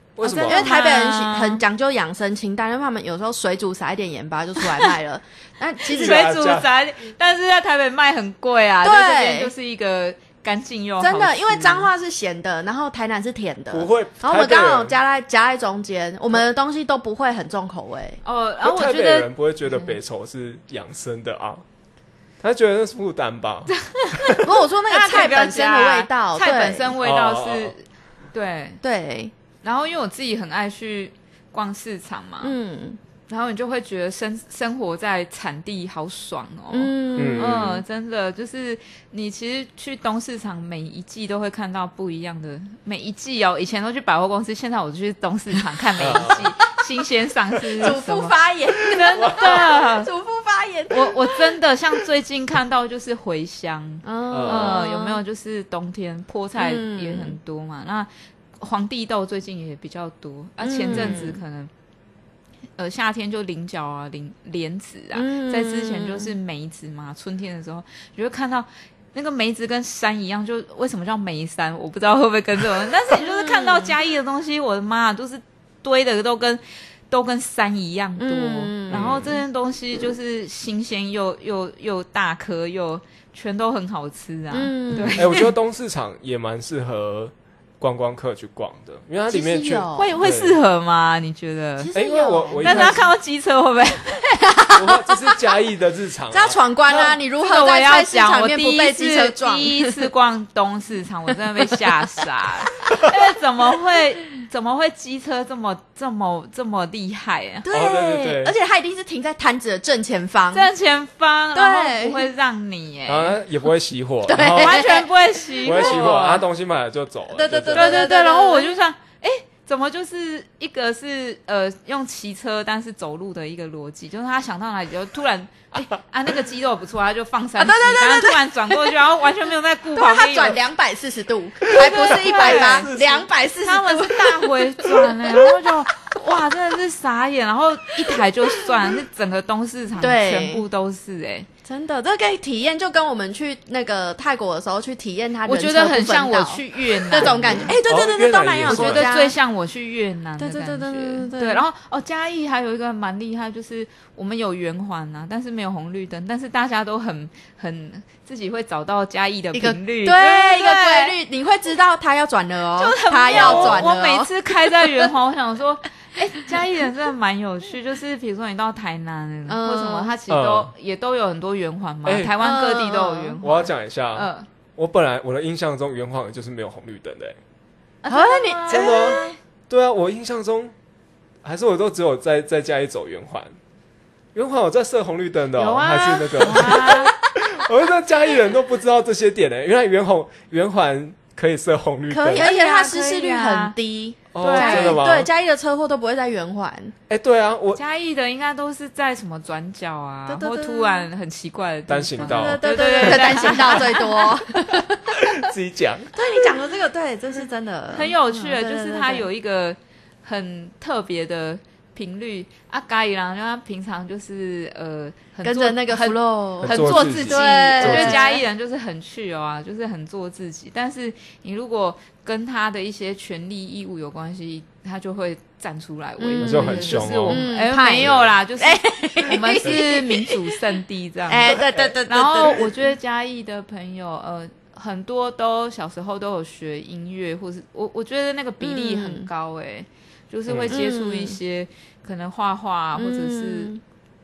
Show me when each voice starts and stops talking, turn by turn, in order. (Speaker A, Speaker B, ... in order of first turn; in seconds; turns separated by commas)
Speaker A: 0.2-0.7, Speaker B: 0.2-1.6, Speaker C: 0.5-6.3, Speaker A: 5.8-6.7, Speaker B: 5.9-11.6, Speaker C: 8.8-9.5, Speaker C: 11.0-18.2, Speaker A: 11.5-11.8, Speaker A: 13.7-15.0, Speaker B: 18.2-19.3, Speaker A: 18.6-21.6, Speaker A: 22.4-24.5, Speaker B: 23.8-28.8, Speaker C: 24.4-26.9, Speaker A: 27.0-27.7, Speaker C: 28.8-29.3, Speaker B: 29.6-32.5, Speaker C: 32.4-33.0, Speaker B: 33.3-50.1, Speaker C: 36.7-37.7, Speaker A: 37.1-37.8, Speaker A: 46.0-46.5, Speaker C: 47.8-51.5, Speaker A: 48.9-49.7, Speaker B: 50.9-61.7, Speaker C: 54.0-55.2, Speaker A: 54.3-54.8, Speaker C: 56.6-57.4, Speaker C: 60.6-61.4, Speaker A: 60.9-61.3, Speaker B: 62.8-85.5, Speaker C: 65.1-66.3, Speaker C: 73.1-73.9, Speaker C: 78.2-79.3, Speaker A: 78.9-79.4, Speaker C: 84.5-85.5, Speaker A: 85.2-90.6, Speaker C: 89.3-90.2, Speaker B: 89.9-91.9, Speaker C: 91.8-93.0, Speaker A: 91.9-93.1, Speaker B: 92.6-94.6, Speaker C: 94.4-95.2, Speaker A: 94.7-96.6, Speaker C: 96.3-100.0, Speaker B: 96.9-107.7, Speaker C: 107.6-110.7, Speaker A: 107.7-108.5, Speaker B: 110.5-113.4, Speaker C: 111.5-112.3, Speaker A: 113.1-114.9, Speaker C: 114.2-116.2, Speaker B: 114.5-116.4, Speaker A: 115.6-118.1, Speaker C: 117.3-118.7, Speaker B: 117.7-130.6, Speaker C: 127.6-128.9, Speaker C: 129.9-135.6, Speaker A: 131.7-133.3, Speaker B: 131.9-132.9, Speaker B: 133.6-141.5, Speaker C: 140.0-140.6, Speaker C: 141.6-149.3, Speaker B: 145.4-147.7, Speaker A: 147.9-149.1, Speaker B: 148.7-161.2, Speaker C: 150.4-151.7, Speaker C: 159.5-165.1, Speaker B: 162.8-174.5, Speaker A: 163.4-163.8, Speaker C: 169.5-170.1, Speaker A: 170.3-170.7, Speaker A: 172.1-172.3, Speaker C: 172.4-173.3, Speaker A: 173.4-177.4, Speaker B: 178.0-179.3, Speaker C: 178.1-179.3, Speaker A: 178.7-180.7, Speaker A: 181.4-183.5, Speaker A: 184.3-192.4, Speaker B: 185.5-187.1, Speaker C: 192.1-196.9, Speaker B: 192.3-193.7, Speaker A: 194.3-195.3, Speaker B: 194.4-195.0, Speaker A: 197.1-197.8, Speaker B: 197.7-204.3, Speaker C: 200.3-201.1, Speaker A: 201.9-203.6, Speaker C: 202.3-205.2, Speaker A: 205.1-206.1, Speaker C: 206.1-209.3, Speaker B: 207.9-243.7, Speaker C: 215.4-218.4, Speaker A: 216.6-218.3, Speaker C: 226.2-230.6, Speaker A: 226.4-227.5, Speaker A: 228.0-228.3, Speaker C: 231.3-232.9, Speaker C: 238.6-239.3, Speaker A: 240.5-240.8, Speaker C: 240.7-241.4, Speaker C: 242.9-243.8